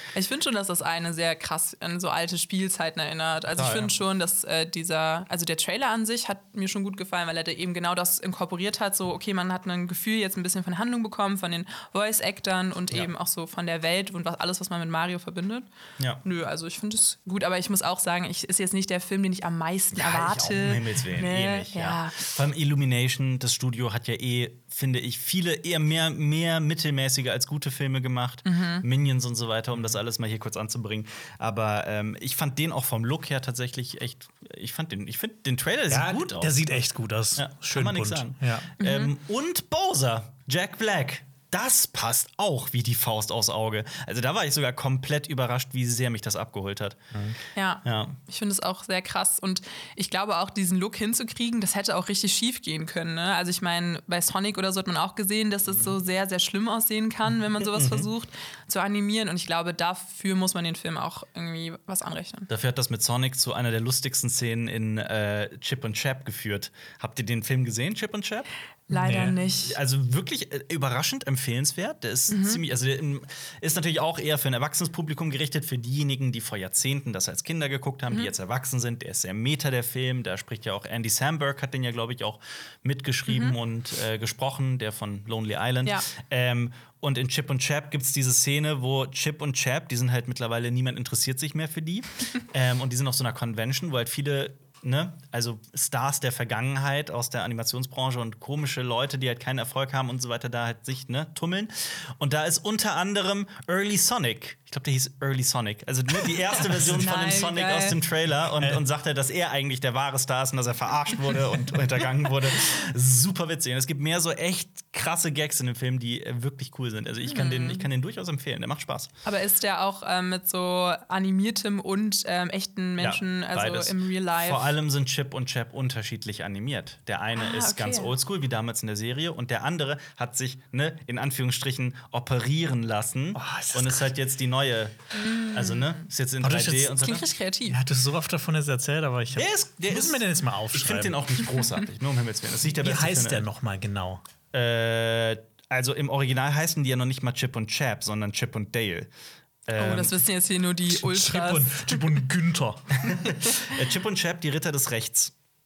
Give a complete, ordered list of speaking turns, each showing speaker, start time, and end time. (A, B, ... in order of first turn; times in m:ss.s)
0:00.1-0:15.7 A
0:03.5-0:03.9 B
0:16.2-0:22.2 A
0:19.9-0:36.8 B
0:28.4-0:28.8 A
0:35.9-0:38.7 C
0:37.4-0:47.0 B
0:38.8-0:39.1 A
0:47.5-1:02.5 A
0:47.8-0:48.2 B
0:57.6-0:58.1 B
1:02.5-1:08.5 B
1:08.9-1:09.8 A
1:08.9-1:09.3 C
1:09.3-1:59.1 B
1:12.3-1:12.6 A
1:23.3-1:23.6 A
1:46.7-1:48.0 A
1:57.2-1:57.8 A
1:59.2-2:04.8 A
2:03.0-2:17.3 B
2:07.3-2:08.1 A
2:13.3-2:14.1 C
2:15.1-2:16.0 A
2:16.4-2:17.0 C
2:17.0-2:17.8 A
2:17.7-2:21.2 C
2:19.4-2:23.4 B
2:22.8-2:24.2 C
2:24.5-2:29.1 B
2:29.7-2:30.2 B
2:29.8-2:32.1 A
2:30.9-2:33.1 C
2:33.1-2:35.3 B
2:33.2-2:33.6 A